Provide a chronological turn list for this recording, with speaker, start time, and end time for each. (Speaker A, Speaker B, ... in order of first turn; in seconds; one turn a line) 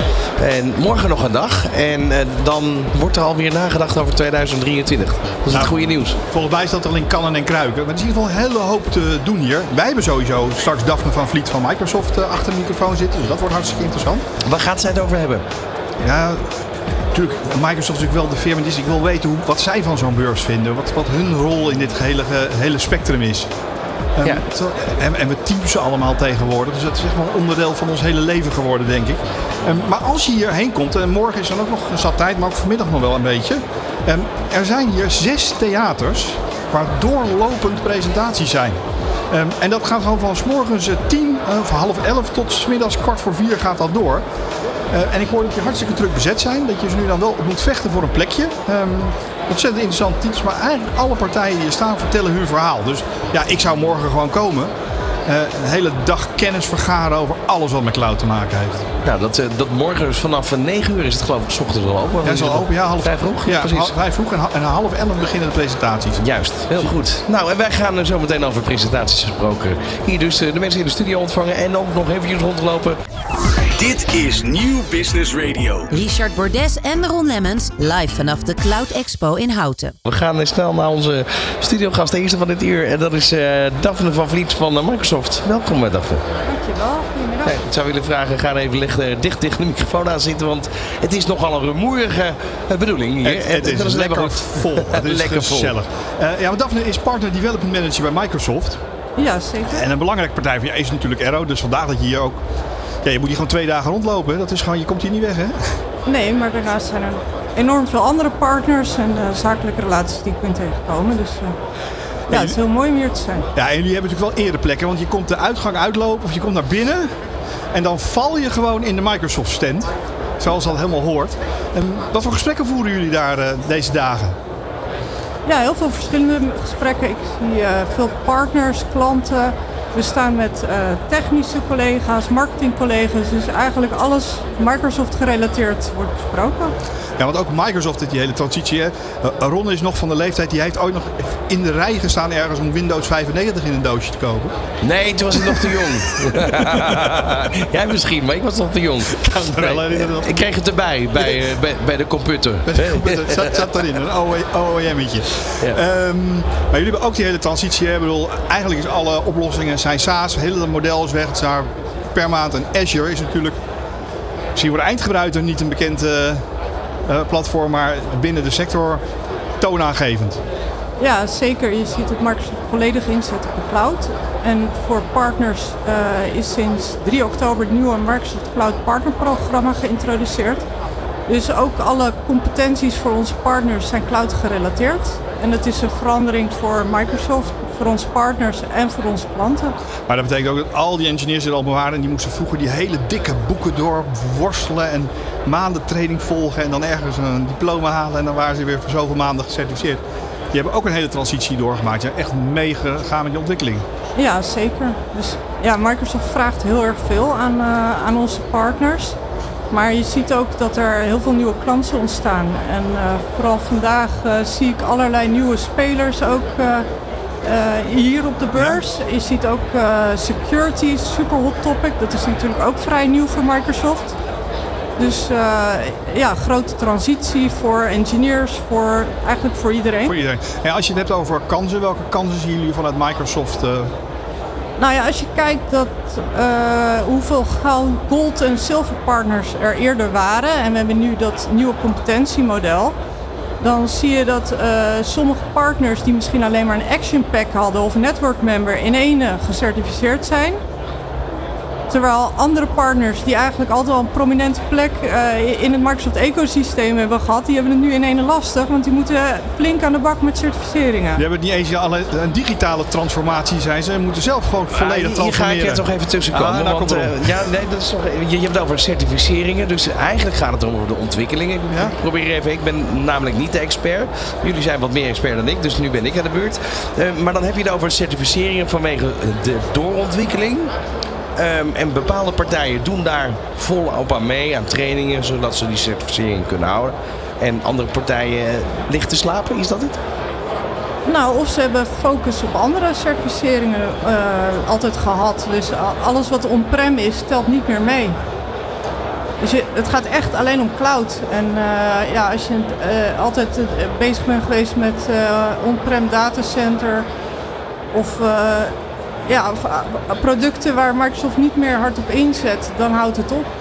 Speaker A: 0.4-6.2
Speaker B: 5.5-14.2
Speaker A: 14.4-15.4
Speaker B: 16.0-16.6
Speaker B: 17.1-23.5
Speaker B: 24.1-38.8
Speaker B: 39.3-44.2
Speaker B: 44.9-54.7
Speaker B: 55.3-58.9
Speaker A: 59.0-63.9
Speaker B: 62.2-66.2
Speaker A: 66.2-73.0
Speaker C: 73.3-75.9
Speaker D: 75.9-79.9
Speaker A: 80.0-86.2
Speaker E: 86.5-87.6
Speaker A: 87.4-95.7
Speaker B: 93.2-98.8
Speaker E: 99.2-99.8
Speaker B: 99.7-102.4
Speaker B: 103.0-105.8
Speaker E: 106.1-111.5
Speaker B: 112.3-112.6
Speaker E: 112.3-113.5
Speaker B: 113.5-117.1
Speaker B: 117.7-124.4
Speaker E: 125.5-136.7
Speaker B: 137.2-144.5
Speaker A: 144.8-153.8
Speaker B: 145.3-147.7
Speaker B: 149.2-150.5
Speaker B: 151.2-151.4
Speaker B: 152.7-163.6
Speaker B: 164.6-166.4
Speaker B: 167.1-169.0
Speaker B: 169.6-170.4
Speaker E: 171.0-180.7
Speaker E: 181.3-189.8
Speaker B: 190.1-203.9
Speaker E: 204.2-209.2
Speaker E: 209.7-216.9
Speaker E: 217.4-224.2
Speaker B: 218.6-218.8
Speaker E: 225.0-230.2
Speaker B: 230.0-233.9
Speaker E: 234.8-243.0
Speaker E: 243.6-250.6
Speaker E: 251.9-261.2
Speaker B: 261.2-267.5
Speaker A: 264.7-280.7
Speaker B: 271.7-271.9
Speaker A: 281.4-290.0
Speaker E: 291.1-298.2
Speaker E: 299.4-307.1
Speaker E: 307.9-308.8
Speaker E: 309.3-313.5